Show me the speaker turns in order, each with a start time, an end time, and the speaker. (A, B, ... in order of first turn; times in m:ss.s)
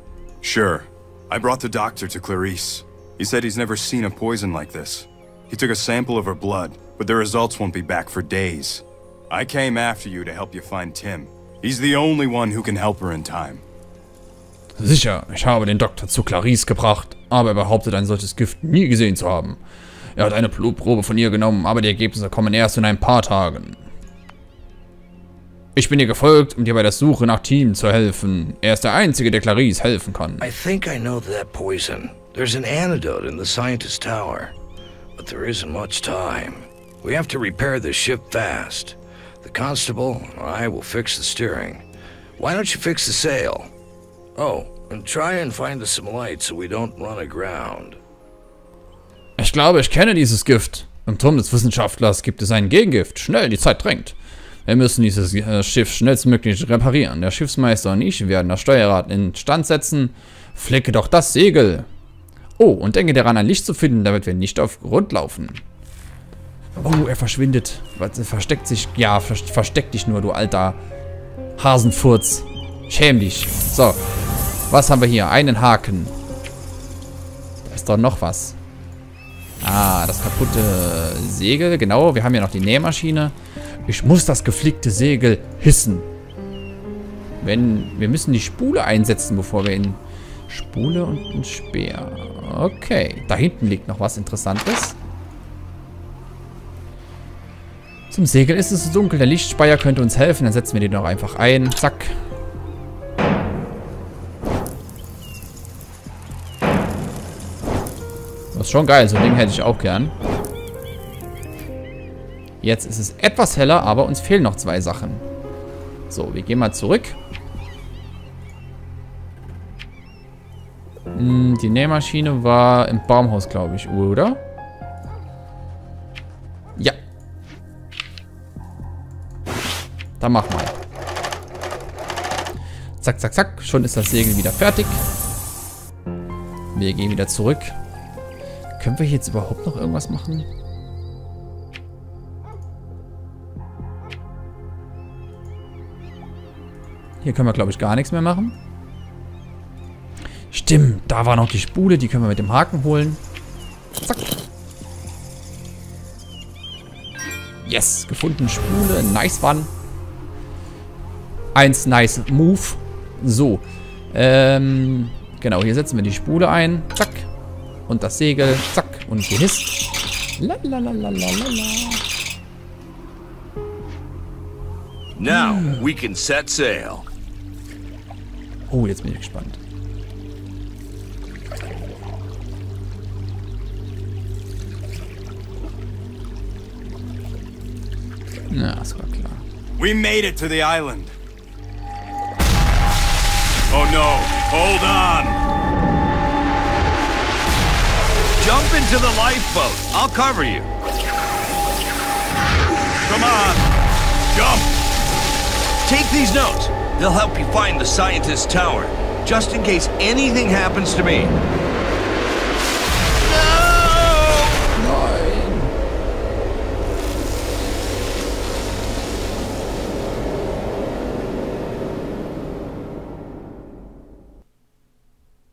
0:00.4-0:13.6 A
0:14.8-0:19.6 B
0:20.2-0:23.9 B
0:25.8-0:30.5 B
0:30.4-0:34.5 C
0:35.2-0:41.8 C
0:42.4-0:43.7 C
0:44.4-0:48.0 C
0:49.4-1:01.9 B
1:02.6-1:05.6 B
1:06.8-1:10.8 B
1:11.6-1:14.0 B
1:14.7-1:16.1 B
1:17.6-1:18.6 B
1:19.6-1:23.4 B
1:23.9-1:26.1 B
1:27.4-1:35.0 B
1:38.1-1:42.1 B
1:48.5-1:50.1 B
1:52.6-1:55.2 B
1:56.1-1:57.2 B
2:01.1-2:04.4 B
2:10.2-2:10.8 B
2:13.0-2:15.0 B
2:16.7-2:17.8 B
2:18.8-2:20.5 B
2:27.2-2:28.6 B
2:30.5-2:33.2 B
2:34.0-2:34.4 B
2:37.6-2:39.7 B
2:41.6-2:47.3 B
2:47.9-2:49.8 B
2:50.4-2:52.0 B
2:55.2-2:57.1 C
2:55.3-2:55.8 B
2:58.7-2:59.6 B
3:08.5-3:09.4 B
3:09.8-3:11.2 A
3:13.7-3:15.4 A
3:18.4-3:20.7 C
3:23.0-3:23.6 A
3:24.3-3:24.7 A
3:25.8-3:31.4 C
3:33.1-3:34.8 C
3:34.7-3:35.7 B